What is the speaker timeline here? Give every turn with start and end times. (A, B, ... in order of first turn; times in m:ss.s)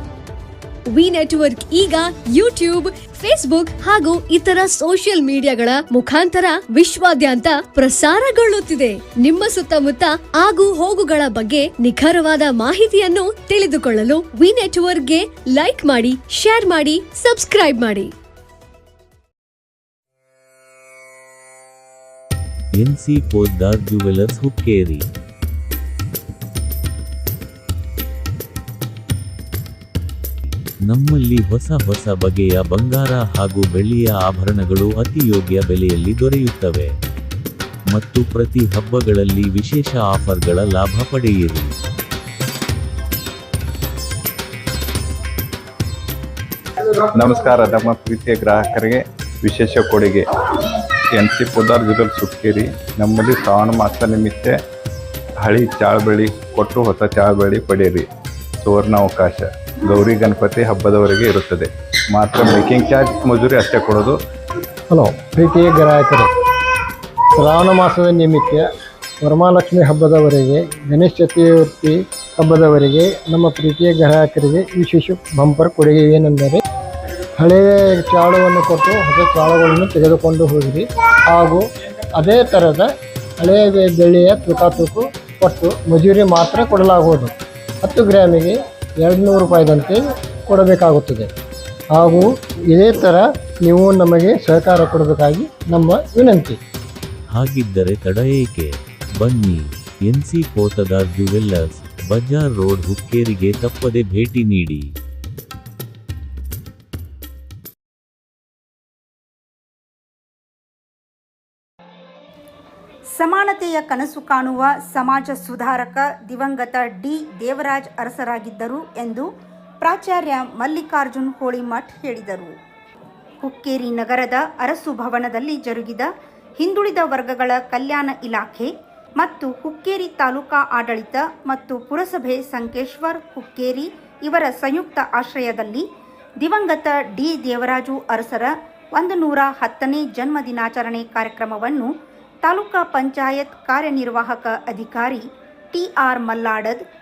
0:00.9-0:18.1 A
0:22.8-0:25.0 B
0:30.8-0:36.9 B
0:37.9-0:41.7 B
0:47.1-0:50.2 C
0:51.2-0:54.6 C
0:55.4-0:58.1 C
0:58.6-1:04.2 C
1:04.9-1:06.3 D
1:07.3-1:08.7 D
1:09.2-1:16.6 D
1:17.4-1:31.3 D
1:31.9-1:36.6 D
1:37.3-1:44.8 B
1:53.2-1:59.3 E
1:59.8-2:02.5 E
2:03.4-2:15.8 E
2:16.4-2:21.9 E
2:22.4-2:26.8 E